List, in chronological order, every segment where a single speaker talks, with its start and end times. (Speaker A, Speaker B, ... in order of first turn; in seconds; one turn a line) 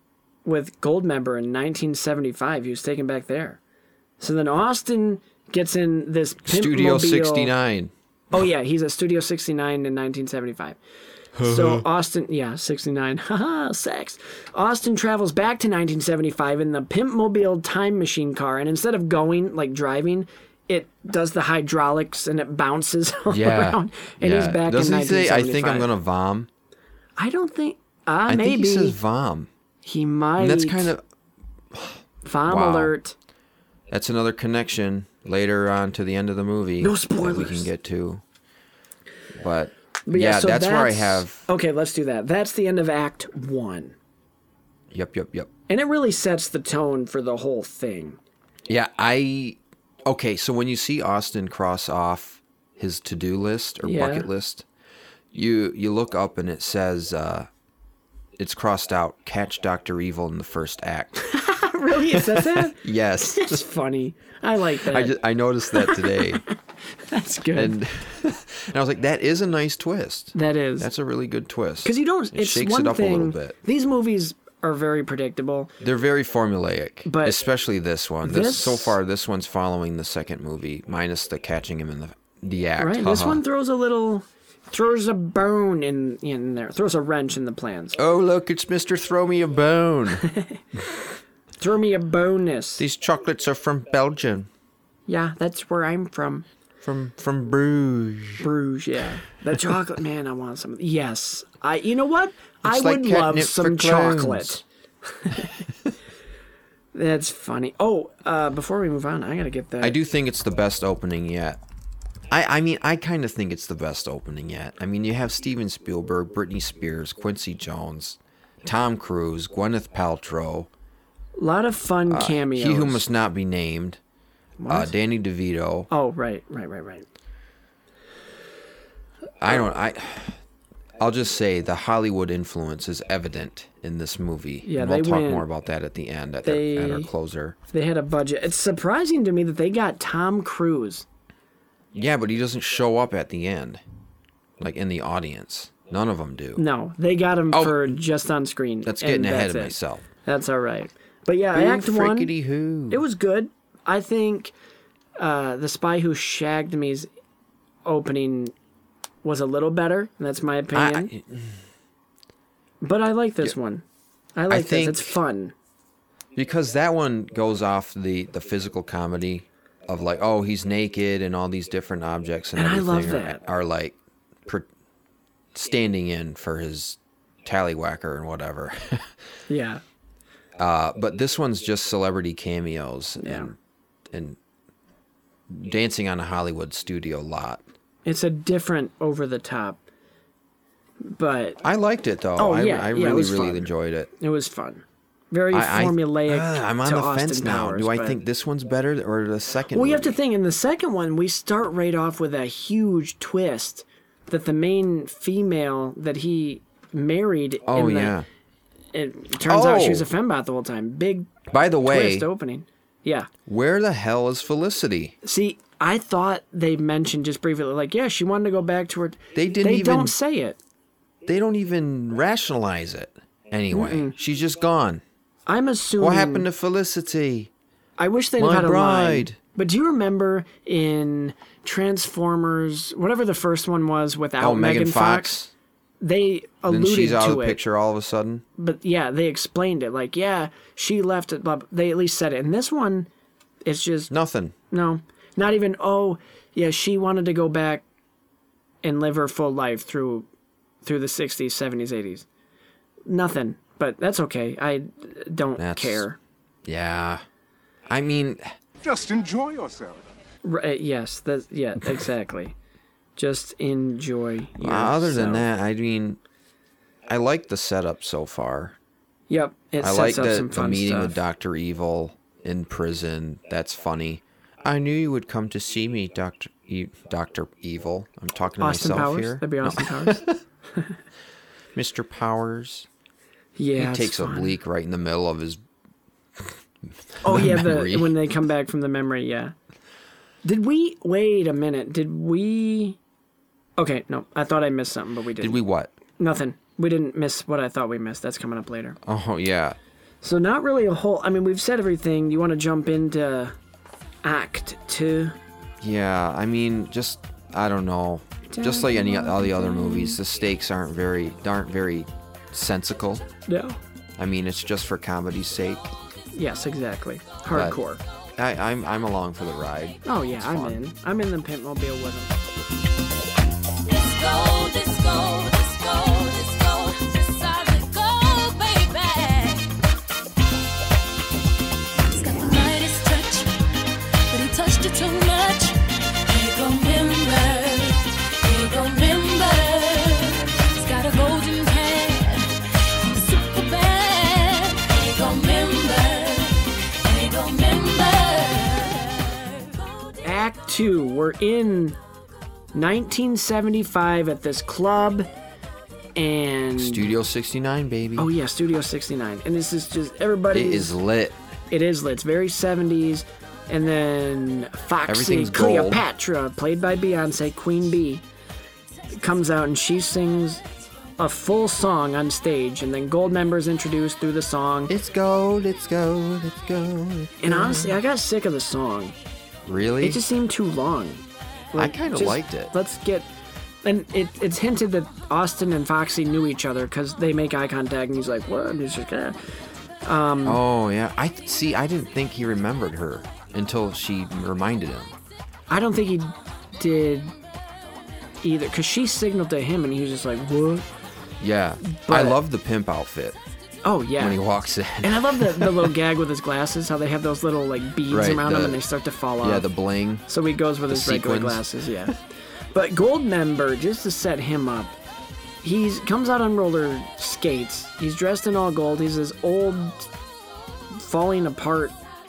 Speaker A: 0.5-3.6
Speaker A: 4.2-7.5
Speaker B: 6.5-7.9
Speaker A: 8.3-10.8
Speaker B: 11.4-11.8
Speaker A: 11.4-25.9
Speaker B: 23.3-26.5
Speaker A: 27.2-29.0
Speaker B: 28.3-29.5
Speaker A: 29.8-30.9
Speaker B: 30.4-31.0
Speaker B: 31.7-33.0
Speaker A: 32.2-33.1
Speaker B: 33.9-38.2
Speaker A: 36.8-37.7
Speaker B: 39.4-41.4
Speaker A: 40.1-44.0
Speaker B: 44.9-45.5
Speaker A: 45.7-48.2
Speaker B: 48.7-54.7
Speaker A: 53.8-54.3
Speaker B: 55.3-57.5
Speaker B: 58.4-61.2
Speaker A: 61.2-65.2
Speaker B: 62.1-63.6
Speaker B: 64.8-66.4
Speaker A: 65.7-66.4
Speaker A: 67.0-67.8
Speaker B: 67.5-73.6
Speaker A: 70.3-70.9
Speaker A: 71.8-75.7
Speaker B: 75.8-83.4
Speaker A: 77.0-77.4
Speaker A: 78.2-79.0
Speaker A: 82.8-88.0
Speaker B: 88.0-90.2
Speaker A: 90.3-90.6
Speaker A: 91.6-92.8
Speaker B: 92.8-94.5
Speaker A: 95.1-96.5
Speaker B: 96.8-98.5
Speaker A: 98.4-105.6
Speaker B: 102.6-104.6
Speaker A: 106.9-110.0
Speaker B: 109.8-111.6
Speaker B: 112.3-120.7
Speaker A: 121.4-123.0
Speaker B: 122.1-124.0
Speaker A: 124.6-124.9
Speaker B: 124.7-125.9
Speaker A: 125.9-127.1
Speaker B: 129.4-130.4
Speaker B: 131.0-137.6
Speaker A: 134.6-135.5
Speaker A: 136.4-137.1
Speaker A: 137.7-141.1
Speaker B: 141.9-143.8
Speaker B: 144.6-146.6
Speaker A: 146.6-152.3
Speaker B: 147.5-147.9
Speaker B: 148.8-150.1
Speaker B: 151.5-153.0
Speaker A: 152.9-154.5
Speaker A: 155.2-157.1
Speaker A: 157.8-158.5
Speaker A: 159.2-161.1
Speaker B: 160.7-161.6
Speaker A: 162.8-163.8
Speaker A: 164.4-165.5
Speaker B: 164.5-165.2
Speaker B: 166.3-174.7
Speaker A: 172.6-173.4
Speaker B: 175.5-179.1
Speaker A: 179.5-179.8
Speaker B: 180.6-183.6
Speaker A: 183.2-183.5
Speaker B: 184.1-184.4
Speaker B: 185.5-187.6
Speaker A: 188.1-189.8
Speaker A: 191.0-191.6
Speaker B: 191.6-194.1
Speaker A: 192.4-198.2
Speaker B: 195.5-200.2
Speaker A: 199.7-208.2
Speaker B: 207.7-208.3
Speaker A: 208.9-213.3
Speaker B: 209.5-210.1
Speaker B: 211.5-212.3
Speaker B: 213.5-215.2
Speaker A: 215.2-220.6
Speaker B: 219.3-220.1
Speaker B: 221.2-225.0
Speaker A: 223.7-224.2
Speaker A: 225.5-226.5
Speaker B: 226.0-227.5
Speaker A: 228.0-235.4
Speaker B: 228.4-229.4
Speaker B: 234.4-235.5
Speaker A: 236.0-237.6
Speaker B: 236.7-238.4
Speaker A: 238.6-243.1
Speaker A: 243.7-244.1
Speaker B: 244.1-244.6
Speaker A: 244.7-247.8
Speaker A: 248.8-250.3
Speaker A: 250.8-252.2
Speaker A: 253.1-256.2
Speaker B: 255.6-256.0
Speaker B: 256.7-257.2
Speaker B: 257.9-258.5
Speaker C: 258.8-260.1
Speaker A: 260.4-262.6
Speaker A: 263.2-265.5
Speaker B: 264.6-266.2
Speaker B: 267.1-268.8
Speaker A: 269.3-271.2
Speaker B: 269.8-280.4
Speaker A: 278.6-280.2
Speaker B: 281.8-282.9
Speaker A: 283.6-284.5
Speaker B: 283.8-285.6
Speaker B: 287.2-288.2
Speaker A: 287.2-289.5
Speaker A: 290.4-293.0
Speaker A: 293.8-295.6
Speaker B: 295.4-295.9
Speaker A: 296.2-299.0
Speaker B: 299.0-299.8
Speaker A: 300.2-303.5
Speaker A: 304.2-305.4
Speaker B: 305.8-313.2
Speaker A: 308.5-310.2
Speaker A: 313.5-313.8
Speaker B: 314.2-315.9
Speaker A: 316.3-318.0
Speaker B: 317.5-317.8
Speaker B: 318.4-320.8
Speaker A: 320.1-322.4
Speaker C: 323.9-329.7
Speaker C: 332.0-350.1
Speaker A: 350.2-352.0
Speaker A: 352.7-355.3
Speaker A: 356.2-357.1
Speaker B: 356.8-358.3
Speaker A: 358.2-360.9
Speaker B: 360.5-361.4
Speaker A: 361.7-368.2
Speaker B: 365.1-366.1
Speaker A: 369.2-370.6
Speaker A: 371.2-374.9
Speaker B: 374.9-378.0
Speaker A: 377.4-379.1
Speaker B: 379.7-380.2
Speaker A: 380.0-383.3
Speaker B: 381.8-382.7
Speaker A: 383.8-389.4
Speaker A: 390.1-390.6
Speaker B: 390.4-395.1
Speaker A: 395.7-397.3
Speaker A: 398.4-400.9
Speaker B: 401.4-403.4
Speaker A: 401.8-402.4
Speaker A: 403.8-404.4
Speaker B: 404.2-405.9
Speaker A: 405.0-409.7
Speaker B: 408.1-408.8
Speaker B: 409.4-410.2
Speaker A: 410.3-412.2
Speaker B: 410.9-412.1
Speaker A: 412.7-414.9
Speaker A: 415.6-420.1
Speaker A: 420.9-422.0